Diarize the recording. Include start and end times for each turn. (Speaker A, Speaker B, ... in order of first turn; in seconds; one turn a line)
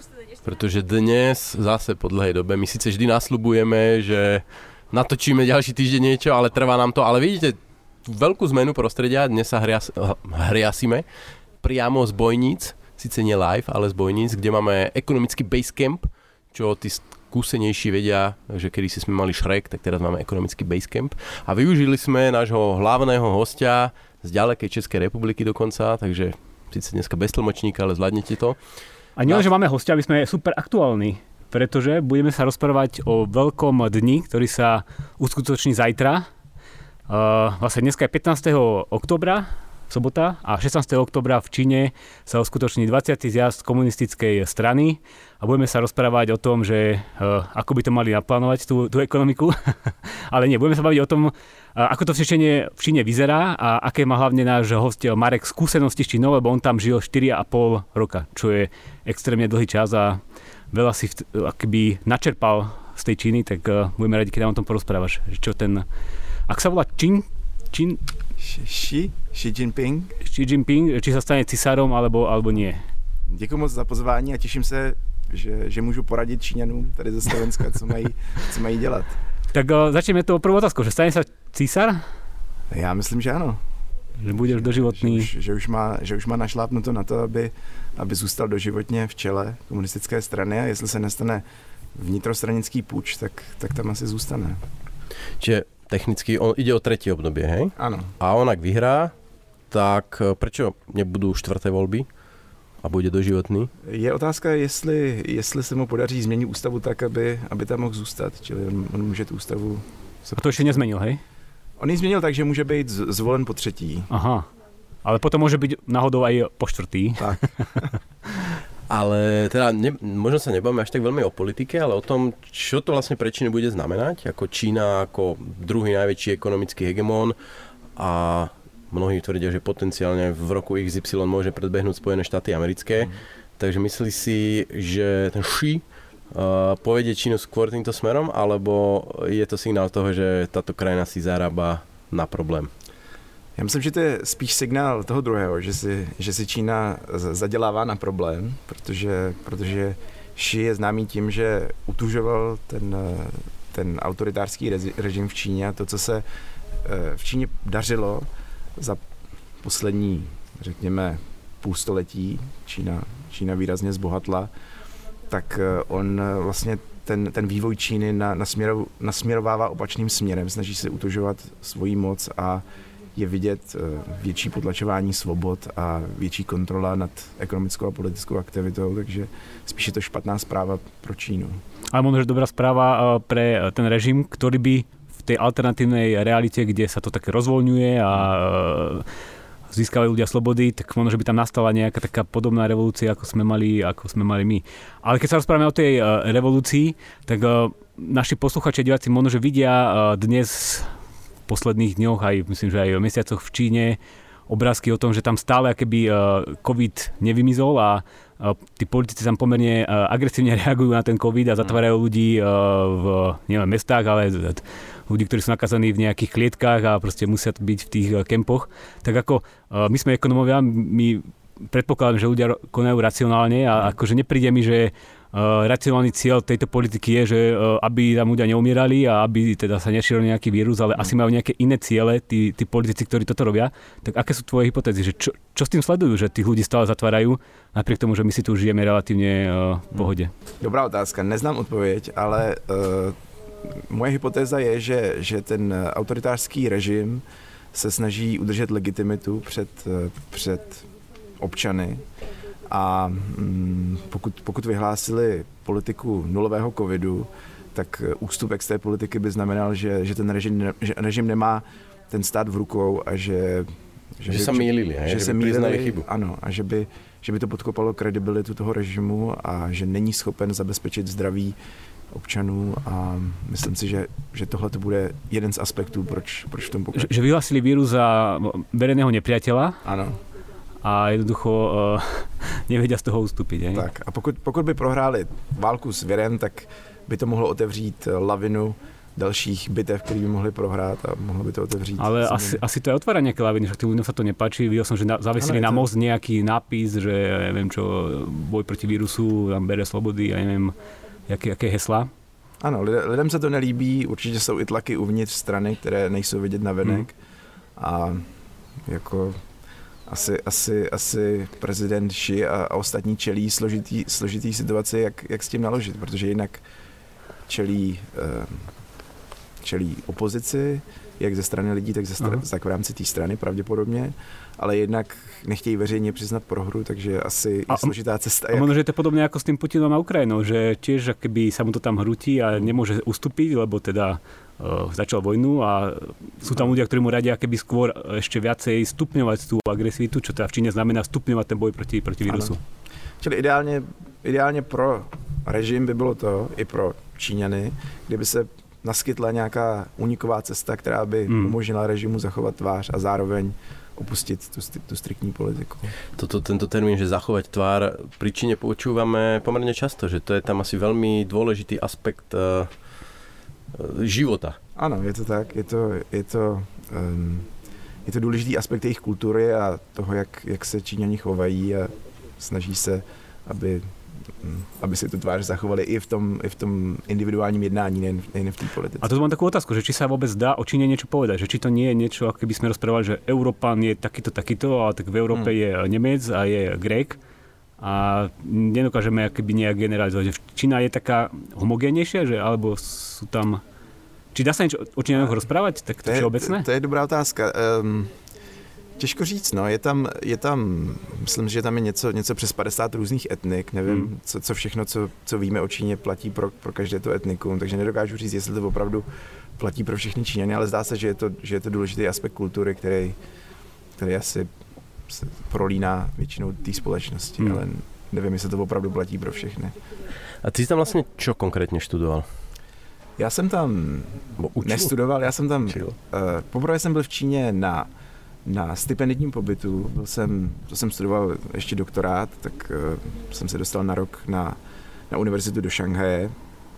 Speaker A: 0.4-11.1
Speaker A: 11.6-28.6
Speaker B: 29.2-36.3
Speaker B: 37.1-60.2
Speaker B: 60.7-65.9
Speaker B: 66.5-68.0
Speaker C: 68.4-70.1
Speaker B: 70.2-72.8
Speaker C: 73.3-79.2
Speaker B: 79.5-82.0
Speaker C: 82.7-83.6
Speaker B: 84.2-85.3
Speaker C: 84.3-91.4
Speaker C: 92.0-94.6
Speaker A: 95.4-99.1
Speaker C: 97.8-98.1
Speaker A: 99.7-102.1
Speaker A: 102.8-103.7
Speaker C: 103.8-110.8
Speaker B: 110.4-111.2
Speaker C: 111.8-114.1
Speaker B: 114.1-114.5
Speaker B: 115.0-117.9
Speaker C: 117.2-117.9
Speaker A: 118.9-127.4
Speaker A: 128.0-142.7
Speaker C: 143.6-156.3
Speaker C: 156.8-159.1
Speaker C: 159.6-164.5
Speaker C: 165.3-172.6
Speaker C: 173.2-181.6
Speaker B: 181.9-189.1
Speaker B: 189.7-200.9
Speaker B: 201.5-240.3
Speaker C: 240.0-250.9
Speaker C: 251.4-252.0
Speaker C: 252.7-271.6
Speaker A: 264.3-266.1
Speaker C: 272.1-277.1
Speaker B: 276.9-279.8
Speaker C: 279.8-280.2
Speaker B: 280.8-283.9
Speaker C: 283.7-292.6
Speaker B: 292.0-300.8
Speaker C: 295.4-295.9
Speaker B: 301.3-302.1
Speaker C: 302.6-307.1
Speaker C: 307.8-308.3
Speaker C: 308.8-309.4
Speaker C: 310.1-316.6
Speaker C: 317.5-318.7
Speaker C: 319.6-328.7
Speaker B: 327.7-327.9
Speaker B: 328.5-342.6
Speaker C: 342.3-342.6
Speaker C: 343.2-355.9
Speaker B: 351.3-351.6
Speaker A: 356.2-362.7
Speaker A: 363.7-364.6
Speaker C: 364.8-367.5
Speaker C: 368.1-379.1
Speaker B: 379.0-387.2
Speaker B: 387.8-393.6
Speaker B: 394.3-396.7
Speaker C: 396.0-398.1
Speaker C: 399.0-413.2
Speaker C: 414.0-414.5
Speaker C: 415.1-419.8
Speaker A: 420.4-422.3
Speaker C: 423.2-427.9
Speaker A: 424.4-424.9
Speaker C: 428.4-434.6
Speaker C: 435.1-436.4